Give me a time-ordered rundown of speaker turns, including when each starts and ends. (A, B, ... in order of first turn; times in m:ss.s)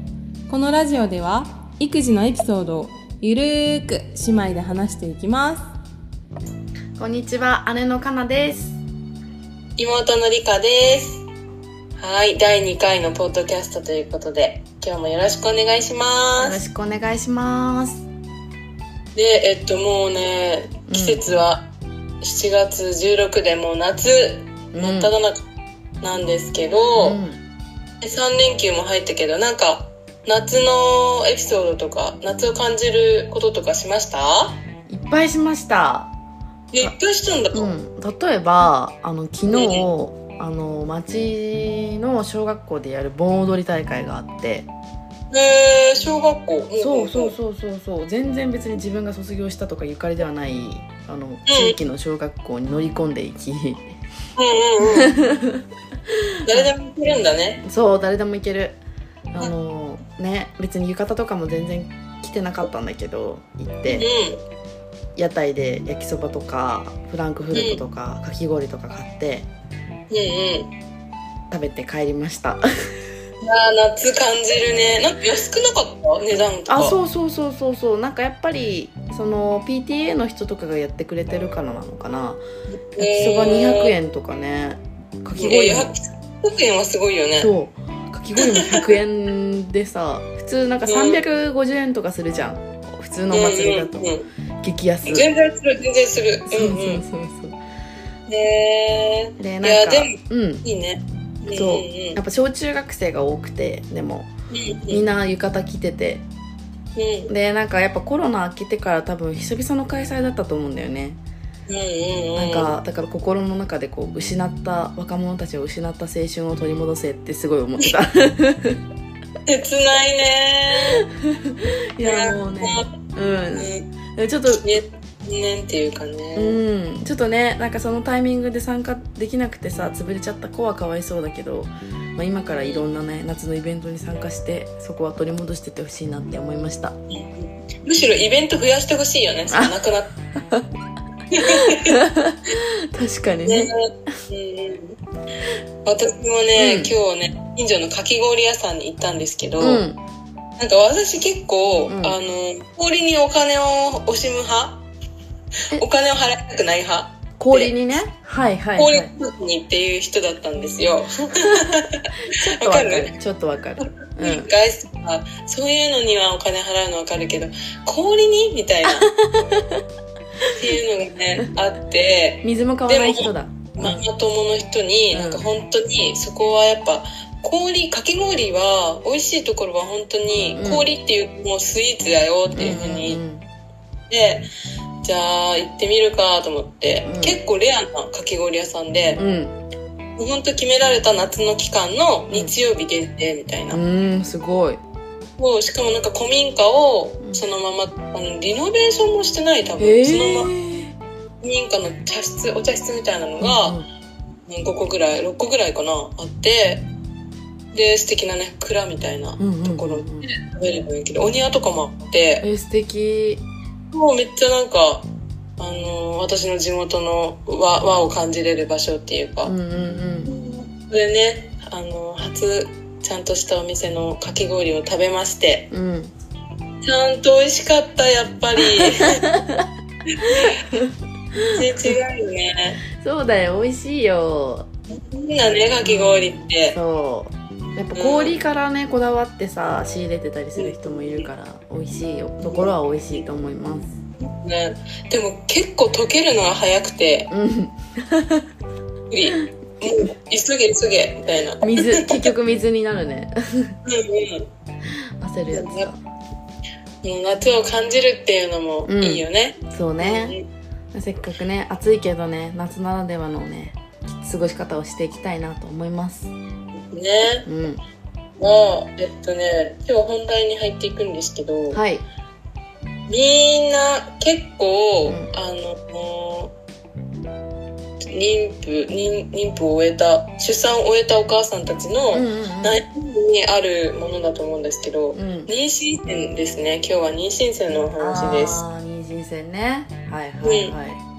0:00.5-0:05.6 A
0:07.0-0:08.8 B
0:09.8-0:11.2 C
0:12.0-0:16.6 C
0:16.4-0:18.0 B
0:19.1-0:21.7 C
0:20.9-0:21.2 B
0:22.2-0:25.4 C
0:24.7-0:25.1 B
0:26.0-0:27.2 C
0:27.0-0:27.4 B
0:28.0-0:34.6 C
0:34.9-0:36.1 B
0:36.7-0:37.7 C
0:37.5-0:44.7 B
0:39.5-0:39.9 C
0:45.3-0:47.3 C
0:46.8-0:53.9 B
0:51.4-0:51.8 C
0:54.4-0:55.2 C
0:54.9-0:55.6 B
0:56.4-0:57.6 C
0:57.6-0:58.8 B
0:59.3-1:04.1 B
1:03.9-1:04.4 C
1:05.2-1:09.5 B
1:07.5-1:07.8 C
1:10.1-1:10.7 C
1:11.5-1:12.6 B
1:13.4-1:17.0 C
1:16.7-1:22.4 B
1:22.9-1:23.9 C
1:23.0-1:25.9 B
1:25.3-1:27.5 C
1:27.4-1:34.1 B
1:28.4-1:29.0 C
1:30.8-1:31.2 C
1:33.3-1:34.3 C
1:34.6-1:35.3 B
1:35.1-1:37.0 C
1:36.5-1:37.6 B
1:38.3-1:42.2 C
1:39.4-1:40.6 B
1:41.5-1:44.3 B
1:44.5-1:45.0 C
1:44.9-1:46.2 B
1:47.0-1:47.3 C
1:47.3-1:51.2 B
1:51.7-1:52.8 C
1:52.4-1:58.8 B
1:59.5-2:01.0 C
2:01.2-2:04.7 B
2:02.0-2:02.9 C
2:03.6-2:03.8 C
2:04.6-2:06.6 C
2:06.4-2:16.9 B
2:12.5-2:12.9 C
2:17.1-2:20.1 C
2:19.5-2:19.8 B
2:21.3-2:22.0 C
2:21.4-2:23.7 B
2:23.4-2:25.0 C
2:25.8-2:29.8 C
2:26.6-2:26.9 B
2:29.6-2:30.0 B
2:30.6-2:34.8 C
2:31.9-2:32.2 B
2:35.7-2:37.8 C
2:37.4-2:39.1 B
2:38.8-2:42.0 C
2:41.4-2:41.7 B
2:42.3-2:44.5 B
2:42.6-2:43.1 C
2:44.2-2:49.1 C
2:48.9-2:49.8 B
2:50.6-3:03.2 C
2:52.4-2:54.0 B
2:55.1-2:55.4 B
3:00.6-3:00.8 B
3:02.5-3:03.4 B
3:04.1-3:04.4 C
3:05.0-3:09.2 C
3:07.0-3:07.4 B
3:09.2-3:09.6 B
3:10.2-3:13.8 C
3:13.7-3:14.8 B
3:15.4-3:20.5 C
3:19.8-3:20.9 B
3:21.4-3:23.8 C
3:23.4-3:23.8 B
3:24.5-3:26.8 C
3:27.7-3:32.4 C
3:29.4-3:30.3 B
3:32.4-3:33.4 B
3:33.9-3:35.1 C
3:35.6-3:39.5 C
3:39.4-3:40.3 B
3:40.2-3:45.7 C
3:45.7-3:46.1 B
3:46.8-3:49.2 C
3:49.2-3:49.7 B
3:50.2-3:50.6 C
3:50.4-3:50.9 B
3:51.4-3:51.9 B
3:51.5-3:52.8 C
3:53.0-3:54.7 B
3:54.9-3:56.8 C
3:55.8-4:03.9 B
3:57.9-3:58.4 C
4:00.6-4:01.2 C
4:02.4-4:03.2 C
4:04.2-4:07.3 C
4:07.3-4:08.4 B
4:09.1-4:12.3 C
4:11.6-4:13.7 B
4:13.8-4:14.5 C
4:15.2-4:16.0 B
4:15.5-4:15.9 C
4:17.0-4:20.4 C
4:18.9-4:20.4 B
4:20.9-4:26.3 B
4:26.9-4:27.5 C
4:27.4-4:27.8 B
4:28.4-4:31.8 C
4:31.7-4:32.0 B
4:33.1-4:36.5 C
4:38.1-4:48.6 C
4:42.1-4:42.8 B
4:45.1-4:45.5 B
4:48.0-4:51.0 B
4:50.4-4:50.8 C